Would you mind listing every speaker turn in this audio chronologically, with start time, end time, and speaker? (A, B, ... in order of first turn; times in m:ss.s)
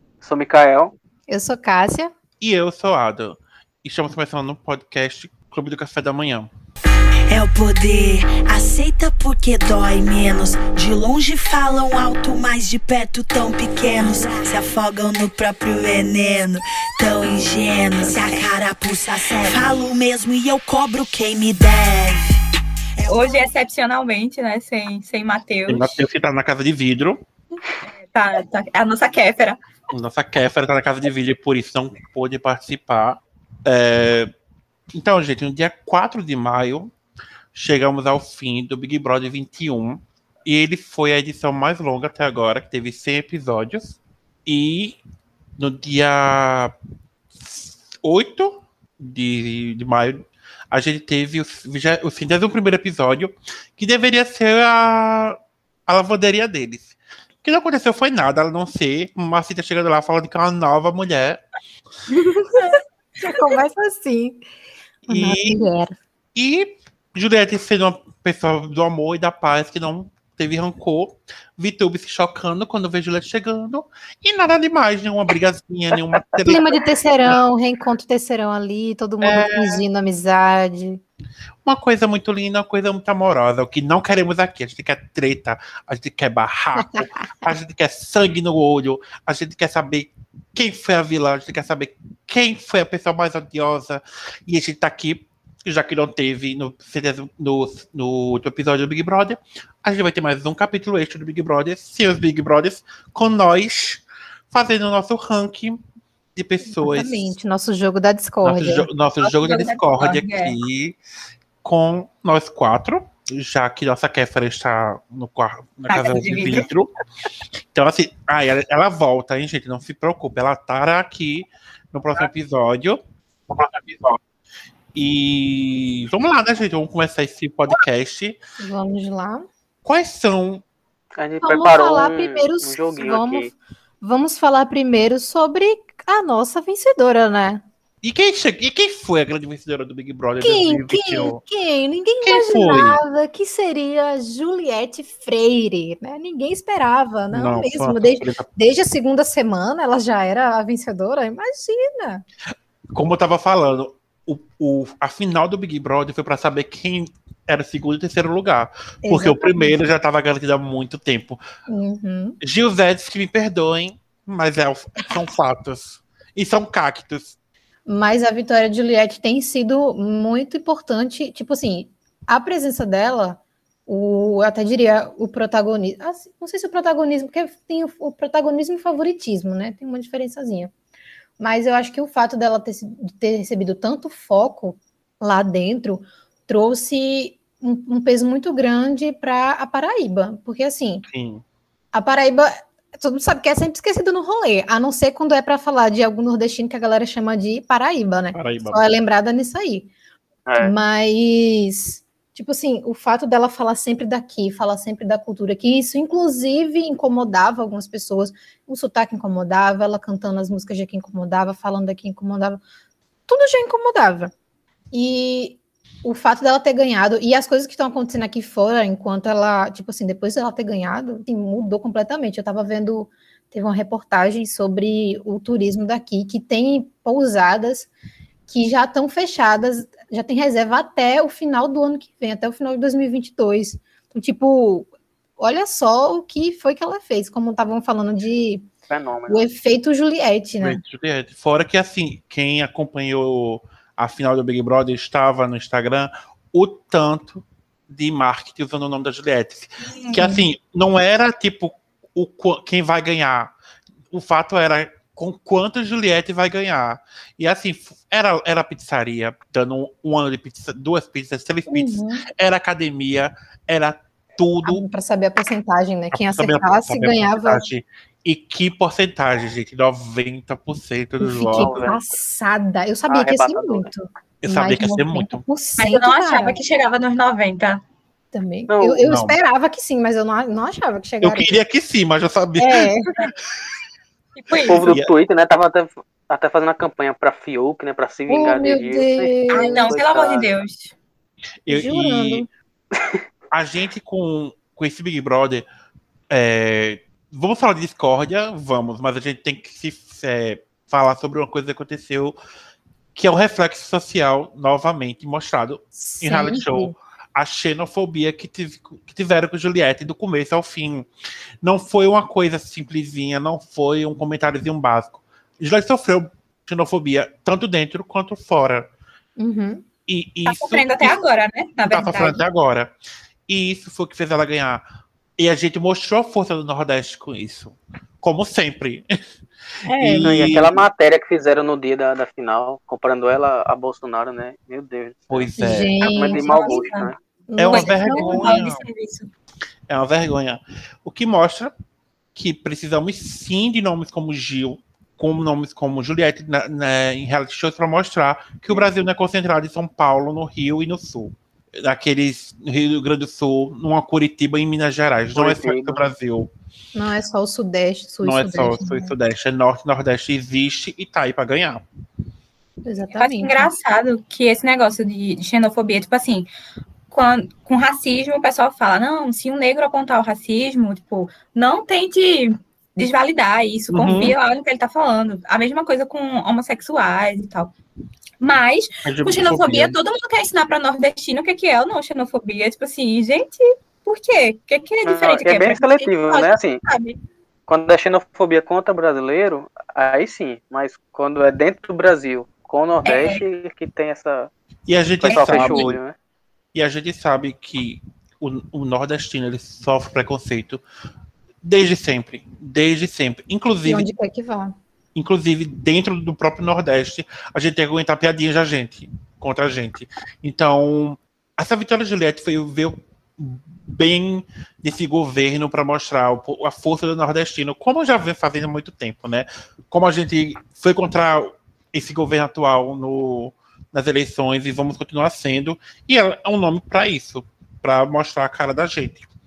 0:00.2-0:00.9 A
0:01.3-0:02.1 B
0:02.4-0:06.5 C
0:07.3-0:22.4 D
0:23.0-0:23.5 D
0:23.0-0:26.0 E
0:25.7-0:27.2 C
0:28.1-0:29.6 E
0:29.9-0:34.3 C
0:34.9-0:36.9 C
0:37.5-0:45.0 C
0:45.6-0:46.7 C
0:47.3-1:01.4 C
1:02.1-1:04.4 B
1:05.1-1:05.6 C
1:05.1-1:06.0 B
1:06.3-1:16.8 C
1:16.4-1:21.0 B
1:19.2-1:19.8 C
1:21.6-1:45.8 C
1:26.8-1:27.3 B
1:46.4-1:47.3 C
1:46.7-1:48.9 B
1:48.4-1:51.0 C
1:49.2-1:50.6 E
1:51.6-1:56.9 C
1:55.9-1:56.6 E
1:57.7-2:03.0 C
2:03.5-2:04.2 C
2:04.9-2:08.4 C
2:08.6-2:09.5 B
2:09.8-2:10.6 C
2:11.2-2:13.5 A
2:11.4-2:17.6 B
2:18.0-2:21.4 C
2:20.4-2:32.2 B
2:22.2-2:23.0 C
2:27.3-2:28.4 C
2:32.9-2:41.4 C
2:39.0-2:39.8 B
2:41.7-2:42.4 B
2:42.4-2:47.3 C
2:47.9-3:00.7 B
3:01.4-3:11.0 B
3:11.1-3:11.4 C
3:11.9-3:19.9 B
3:18.3-3:18.8 C
3:20.4-3:20.7 A
3:20.6-3:32.6 B
3:33.3-3:34.3 B
3:34.9-3:47.9 B
3:48.5-3:58.7 B
3:58.9-3:59.4 A
3:59.3-4:00.8 B
4:00.6-4:13.5 C
4:09.8-4:10.4 E
4:14.1-4:24.8 C
4:21.7-4:22.2 B
4:24.6-4:27.6 B
4:26.1-4:31.9 C
4:31.2-4:36.6 B
4:31.5-4:32.2 A
4:33.1-4:33.9 A
4:34.4-4:35.4 C
4:35.8-4:37.8 E
4:38.3-4:41.5 B
4:38.7-4:39.0 A
4:39.0-4:39.4 C
4:41.2-4:42.9 C
4:42.6-4:43.1 B
4:44.4-4:44.8 E
4:44.7-4:50.5 A
4:48.3-4:49.9 B
4:49.5-4:50.9 E
4:51.6-4:52.5 C
4:51.7-4:52.5 B
4:52.9-4:53.2 A
4:53.5-4:55.6 C
4:56.3-5:02.3 C
5:03.1-5:11.1 C
5:06.0-5:06.9 B
5:11.6-5:18.9 C
5:19.4-5:19.8 B
5:20.1-5:21.2 C
5:20.4-5:22.4 E
5:21.8-5:22.9 C
5:23.5-5:24.8 C
5:25.4-5:29.1 C
5:29.9-5:30.5 B
5:29.9-5:30.8 C
5:30.2-5:37.2 A
5:35.3-5:35.9 C
5:35.6-5:36.8 B
5:36.2-5:37.1 E
5:37.5-5:38.6 B
5:37.6-5:38.8 C
5:37.7-5:39.3 E
5:39.9-5:41.7 C
5:42.3-5:56.5 C
5:55.3-5:56.0 A
5:56.9-5:59.1 B
5:58.2-6:01.8 C
6:02.8-6:03.7 B
6:03.1-6:06.5 E
6:07.1-6:17.7 E
6:13.9-6:14.4 C
6:18.4-6:27.2 E
6:19.0-6:20.0 C
6:25.0-6:26.8 A
6:27.7-6:34.5 A
6:33.0-6:33.4 E
6:34.9-6:36.0 C
6:35.2-6:35.9 E
6:35.3-6:36.1 A
6:36.7-6:40.8 C
6:41.6-6:44.1 C
6:43.8-6:44.8 B
6:45.1-7:09.3 C